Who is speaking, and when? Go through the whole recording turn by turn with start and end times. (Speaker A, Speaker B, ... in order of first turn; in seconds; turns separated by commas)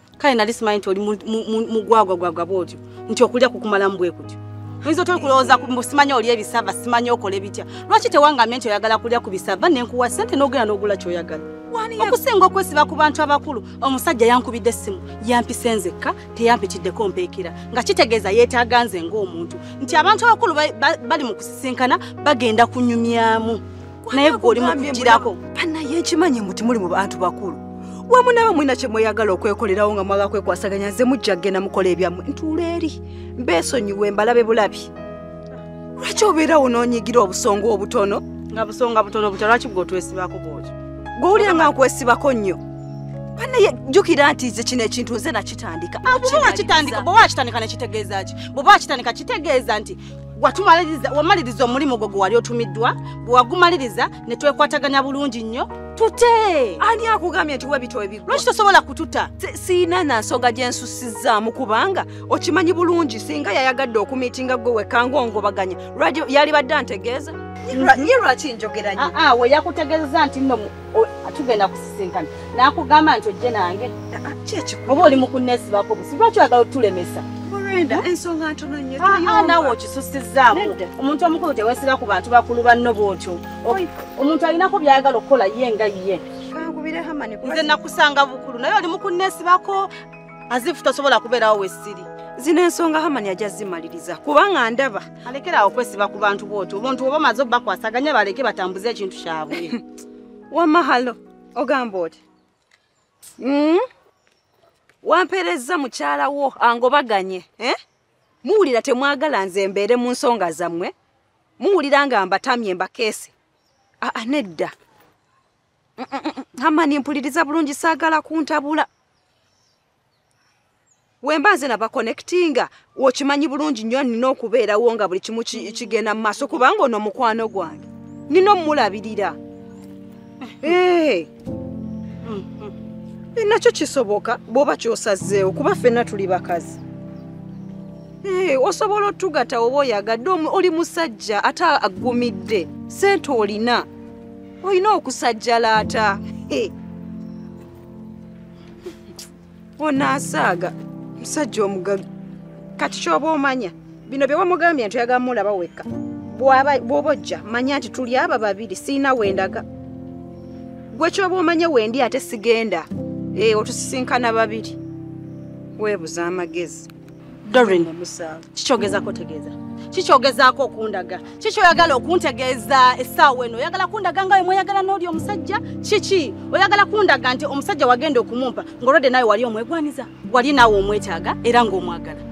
Speaker A: 0.2-11.5, Speaker B: 11.7-12.2, Speaker A: 12.0-25.4, Speaker B: 24.0-34.9, Speaker B: 36.0-38.2, Speaker A: 38.5-40.7, Speaker B: 41.2-42.6, Speaker A: 41.3-41.7, Speaker B: 43.4-47.1, Speaker A: 46.0-56.8, Speaker B: 56.8-58.4, Speaker A: 58.3-59.3, Speaker B: 59.4-69.1, Speaker A: 67.7-68.1, Speaker A: 69.0-73.9, Speaker B: 74.1-75.2, Speaker A: 74.9-77.2, Speaker B: 77.5-79.8, Speaker A: 79.0-86.2, Speaker B: 80.5-80.8, Speaker B: 86.5-87.8, Speaker A: 87.4-89.9, Speaker A: 90.5-92.1, Speaker B: 92.4-95.0, Speaker A: 95.2-99.8, Speaker B: 100.5-102.2, Speaker B: 103.4-103.8, Speaker B: 105.0-107.8, Speaker B: 108.4-110.9, Speaker B: 111.6-113.3, Speaker B: 114.0-114.7, Speaker B: 116.0-118.9, Speaker B: 121.2-129.4, Speaker A: 130.5-130.8, Speaker B: 130.6-131.3, Speaker A: 132.2-132.7, Speaker B: 133.3-136.8, Speaker B: 138.2-143.9, Speaker B: 144.6-146.7, Speaker B: 149.8-152.0, Speaker B: 152.8-159.6, Speaker B: 160.9-164.8, Speaker B: 165.8-166.9, Speaker A: 167.5-167.9, Speaker B: 167.5-168.4, Speaker A: 168.5-182.2